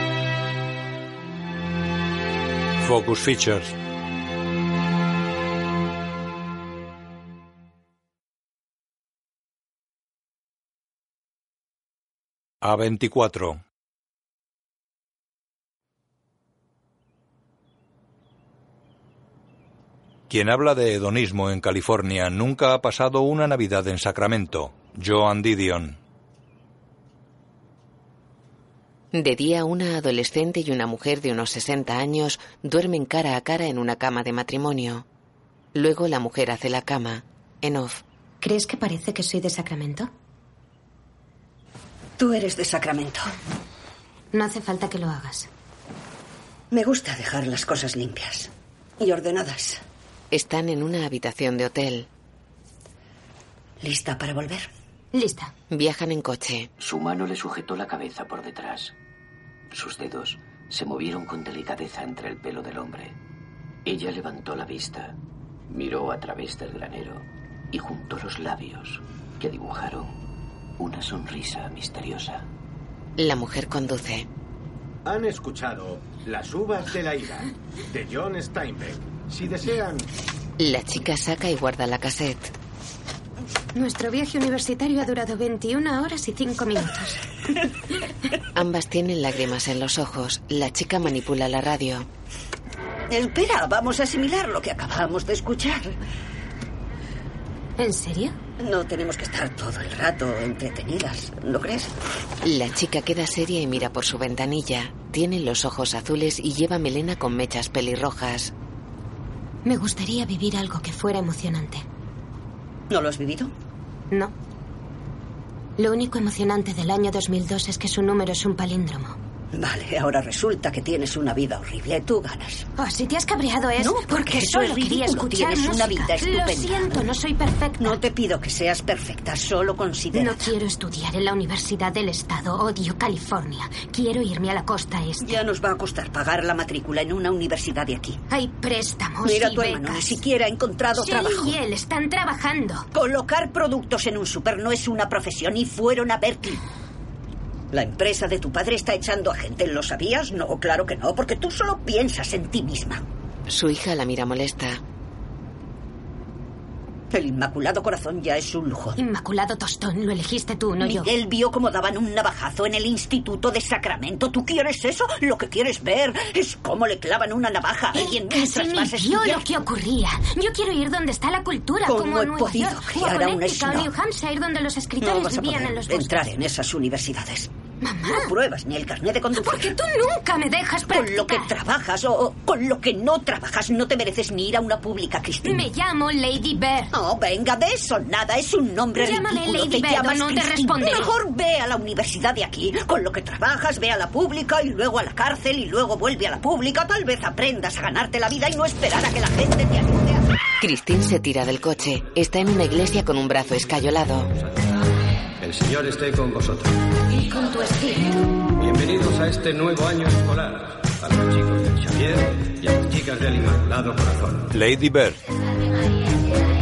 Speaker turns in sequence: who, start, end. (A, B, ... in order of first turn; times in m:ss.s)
0:02.8-0:03.8 A
0:12.6-0:13.6 A
0:20.3-0:26.0 A
0:29.1-0:35.0 B
0:35.7-0:38.0 B
0:38.4-0:40.1 C
0:42.2-0:43.3 D
0:44.3-0:45.5 C
0:46.7-0:48.5 D
0:49.0-0:49.8 D
0:50.3-0:52.1 B
0:53.8-0:54.7 D
0:55.1-0:55.5 C
0:55.7-0:56.7 B
0:56.8-0:58.9 E
0:59.7-1:03.1 E
1:03.8-1:05.1 E
1:05.7-1:10.1 E
1:10.8-1:12.4 E
1:13.2-1:14.3 B
1:15.0-1:20.1 F
1:20.6-1:22.5 B
1:23.7-1:27.2 C
1:28.5-1:32.1 B
1:33.1-1:35.9 D
1:37.8-1:38.3 C
1:38.6-1:41.9 D
1:42.4-1:48.5 B
1:49.6-1:51.8 C
1:52.9-1:53.5 D
1:55.8-1:59.2 C
1:59.5-2:02.6 D
2:02.8-2:08.0 C
2:03.8-2:07.0 D
2:07.8-2:10.5 D
2:10.1-2:15.4 C
2:15.2-2:18.2 D
2:18.3-2:20.2 C
2:19.2-2:21.6 D
2:20.9-2:22.8 C
2:22.9-2:26.6 D
2:27.7-2:33.0 D
2:33.5-2:34.8 B
2:37.1-2:39.0 D
2:39.0-2:41.1 C
2:40.8-2:49.4 D
2:47.9-2:56.2 C
2:51.8-2:53.9 D
2:55.0-2:57.5 D
2:57.8-2:58.3 C
2:58.0-2:59.8 D
2:59.4-3:01.5 C
3:00.9-3:05.7 D
3:05.4-3:06.9 C
3:06.9-3:20.2 D
3:09.0-3:11.1 C
3:20.6-3:24.3 B
3:25.4-3:26.8 G
3:27.1-3:28.2 C
3:28.6-3:34.5 G
3:34.5-3:35.2 A